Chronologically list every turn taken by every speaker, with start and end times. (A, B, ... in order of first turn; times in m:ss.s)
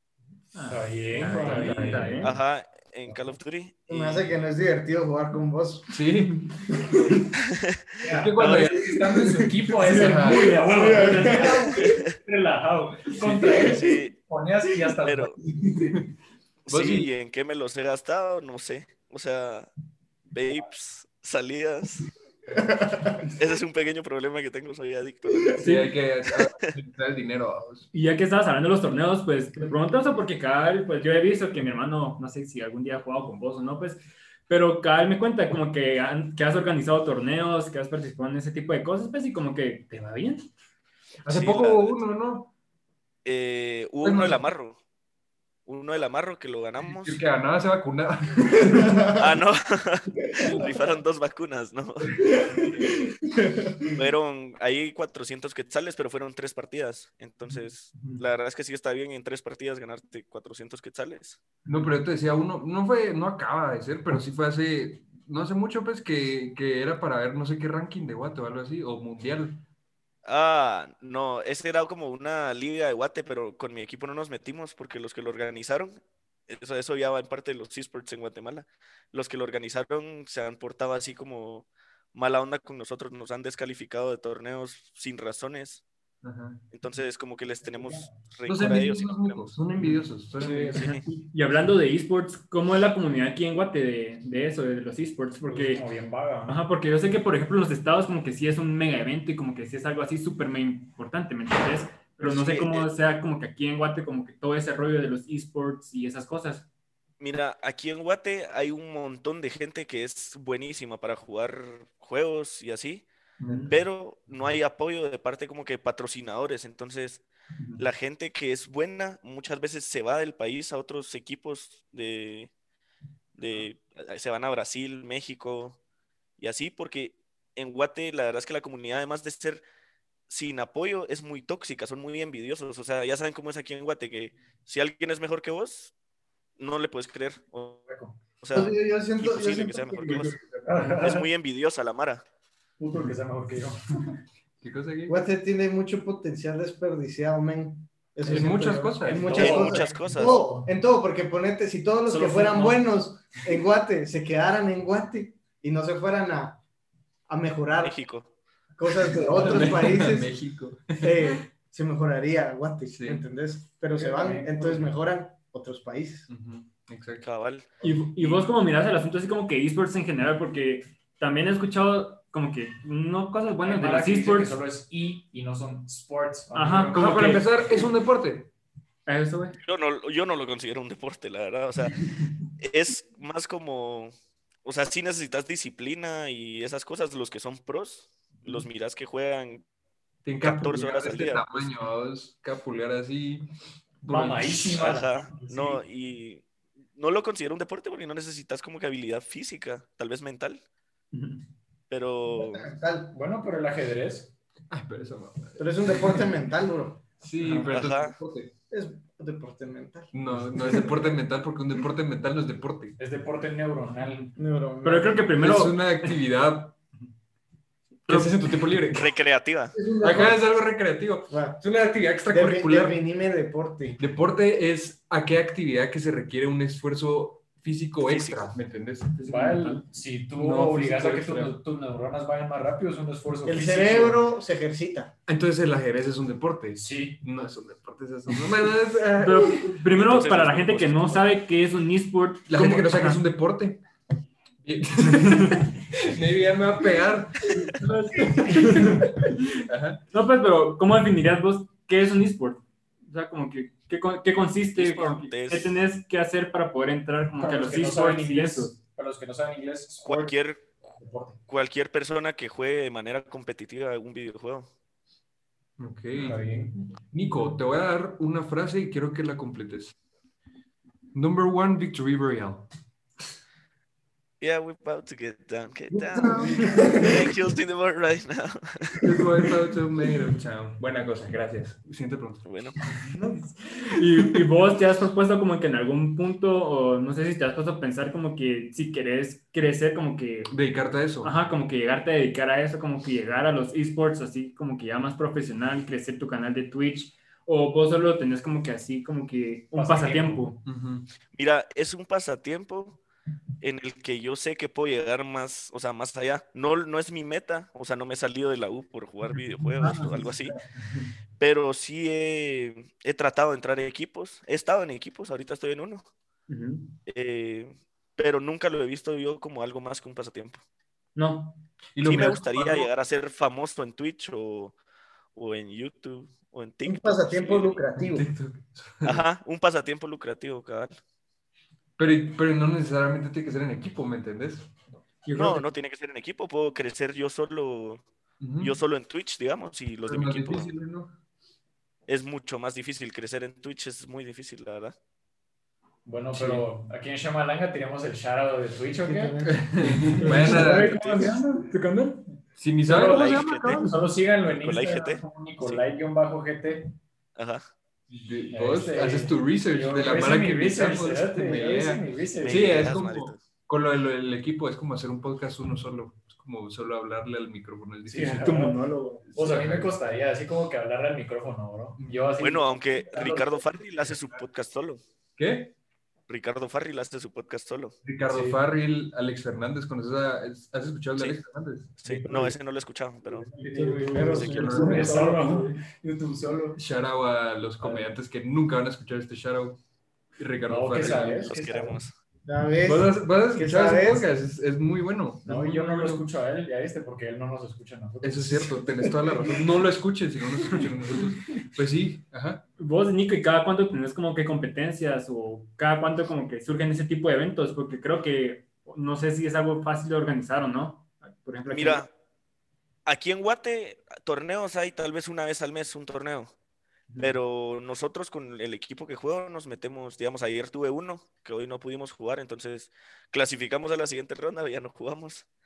0:00.5-0:02.3 A
0:00.6-0:02.4 B
0:01.2-0:02.2 C
0:01.4-0:04.4 D
0:03.9-0:06.0 E
0:05.9-0:06.6 C
0:07.5-0:07.8 D
0:08.0-0:15.9 B
0:08.1-0:11.0 C
0:08.3-0:08.8 D
0:10.0-0:11.9 E
0:11.8-0:12.1 D
0:13.1-0:13.8 C
0:13.4-0:14.1 D
0:15.0-0:15.4 D
0:16.6-0:19.7 D
0:16.7-0:17.1 C
0:20.3-0:22.1 D
0:22.6-0:23.2 E
0:23.4-0:25.6 D
0:25.6-0:27.9 C
0:25.6-0:25.9 A
0:27.9-0:40.5 A
0:41.2-0:42.5 C
0:41.3-0:42.0 D
0:43.2-0:44.8 D
0:44.0-0:44.5 C
0:45.6-0:47.2 D
0:46.8-0:49.1 C
0:48.6-0:49.2 E
0:49.1-0:53.0 D
0:52.2-0:54.0 E
0:53.9-1:01.4 D
1:01.6-1:09.6 C
1:10.2-1:25.8 D
1:26.2-1:26.6 C
1:26.7-1:29.5 D
1:27.6-1:28.1 B
1:28.4-1:30.9 C
1:30.4-1:30.9 B
1:30.7-1:31.0 D
1:30.8-1:35.8 A
1:35.4-1:36.6 B
1:36.4-1:46.6 A
1:42.2-1:42.9 D
1:47.2-1:53.0 D
1:53.7-1:57.2 D
1:57.8-2:02.5 D
2:03.4-2:05.8 D
2:06.4-2:09.6 D
2:10.3-2:15.9 D
2:16.6-2:17.8 D
2:17.9-2:18.2 B
2:18.4-2:22.2 D
2:18.5-2:20.4 E
2:20.4-2:20.6 C
2:20.6-2:21.3 B
2:22.8-2:24.1 B
2:24.6-2:25.2 C
2:25.1-2:36.6 E
2:28.2-2:29.5 C
2:28.3-2:30.7 B
2:29.3-2:30.4 D
2:32.0-2:32.8 B
2:37.3-2:38.0 E
2:37.8-2:38.3 D
2:38.8-2:40.3 E
2:39.1-2:41.4 C
2:41.0-2:46.3 E
2:42.9-2:43.2 C
2:43.9-2:44.9 B
2:46.3-2:47.2 C
2:47.2-2:48.4 D
2:47.8-2:54.5 A
2:53.6-2:57.4 B
2:56.5-2:57.6 A
2:56.9-2:58.5 C
2:59.0-2:59.6 A
2:59.6-3:02.0 D
3:02.6-3:04.1 D
3:04.6-3:09.6 D
3:10.2-3:13.5 C
3:10.4-3:11.7 D
3:14.0-3:14.9 C
3:14.0-3:15.8 B
3:14.7-3:16.4 D
3:17.0-3:20.6 D
3:21.1-3:21.4 A
3:21.9-3:22.7 D
3:22.3-3:23.1 E
3:23.1-3:24.3 B
3:24.7-3:26.3 C
3:25.6-3:27.0 E
3:27.2-3:28.5 C
3:27.4-3:27.7 A
3:27.7-3:28.2 D
3:28.7-3:31.1 E
3:30.1-3:33.0 C
3:33.0-3:34.3 B
3:34.4-3:35.3 E
3:34.8-3:36.2 A
3:35.4-3:36.8 C
3:38.1-3:39.1 C
3:38.9-3:39.7 D
3:39.8-3:40.4 E
3:40.0-3:43.0 C
3:41.3-3:41.6 E
3:42.3-3:44.0 E
3:44.0-3:49.2 C
3:48.0-3:48.5 D
3:49.2-3:49.8 A
3:49.3-3:54.2 B
3:50.4-3:51.6 C
3:53.4-3:55.1 E
3:55.3-3:59.6 C
3:56.7-3:57.2 B
3:59.2-4:03.2 A
3:59.9-4:01.3 D
4:02.5-4:03.8 C
4:04.6-4:10.0 C
4:05.0-4:05.6 A
4:07.7-4:09.1 A
4:10.1-4:18.7 A
4:14.8-4:15.8 D
4:17.4-4:21.4 B
4:20.0-4:20.6 D
4:21.5-4:24.7 D
4:25.8-4:26.5 C
4:26.2-4:26.8 B
4:27.1-4:30.0 C
4:31.1-4:32.7 C
4:34.4-4:39.1 D
4:35.9-4:37.1 C
4:39.0-4:42.5 C
4:42.4-4:42.8 D
4:43.0-4:50.5 A
4:44.0-4:44.5 C
4:50.5-4:51.3 C
4:51.2-5:00.6 A
4:59.7-5:00.5 B
5:00.6-5:01.1 C
5:01.3-5:03.0 D
5:03.6-5:10.6 D
5:11.4-5:16.1 D
5:16.5-5:17.0 A
5:17.1-5:20.6 D
5:21.1-5:21.6 A
5:21.9-5:22.9 C
5:22.0-5:24.8 D
5:25.3-5:27.8 D
5:26.8-5:28.3 E
5:28.0-5:29.2 C
5:29.0-5:31.0 D
5:32.0-5:35.7 C
5:35.3-5:38.0 D
5:38.4-5:38.7 C
5:38.6-5:40.7 D
5:40.0-5:41.1 C
5:42.1-5:44.9 D
5:46.0-5:51.5 B
5:46.3-5:46.6 C
5:49.0-5:50.6 E
5:49.4-5:51.3 C
5:50.2-5:52.3 A
5:52.6-5:54.0 C
5:52.8-5:56.9 B
5:52.9-5:53.9 D
5:54.4-5:55.8 D
5:57.4-5:57.6 D
5:58.1-6:10.0 C
5:58.5-6:02.9 B
6:02.4-6:03.4 D
6:08.1-6:08.8 B
6:08.2-6:09.2 A
6:09.3-6:13.7 B
6:12.0-6:12.3 C
6:12.4-6:15.0 D
6:15.4-6:15.7 C
6:16.3-6:17.9 D
6:18.0-6:22.0 C
6:18.3-6:18.6 B
6:21.2-6:21.4 D
6:22.0-6:23.5 D
6:22.0-6:22.5 B
6:23.2-6:26.8 B
6:23.8-6:25.5 E
6:23.8-6:25.2 C
6:24.3-6:24.7 D
6:25.1-6:25.6 A
6:26.8-6:29.8 C
6:27.8-6:28.1 B
6:30.4-6:31.6 C
6:30.7-6:32.0 B
6:31.0-6:32.1 D
6:32.4-6:34.3 E
6:32.8-6:36.2 C
6:35.4-6:39.7 B
6:38.2-6:42.6 C
6:42.8-6:52.0 A
6:51.7-6:52.1 D
6:53.0-6:56.5 D
6:57.1-6:57.4 A
6:57.2-7:05.5 D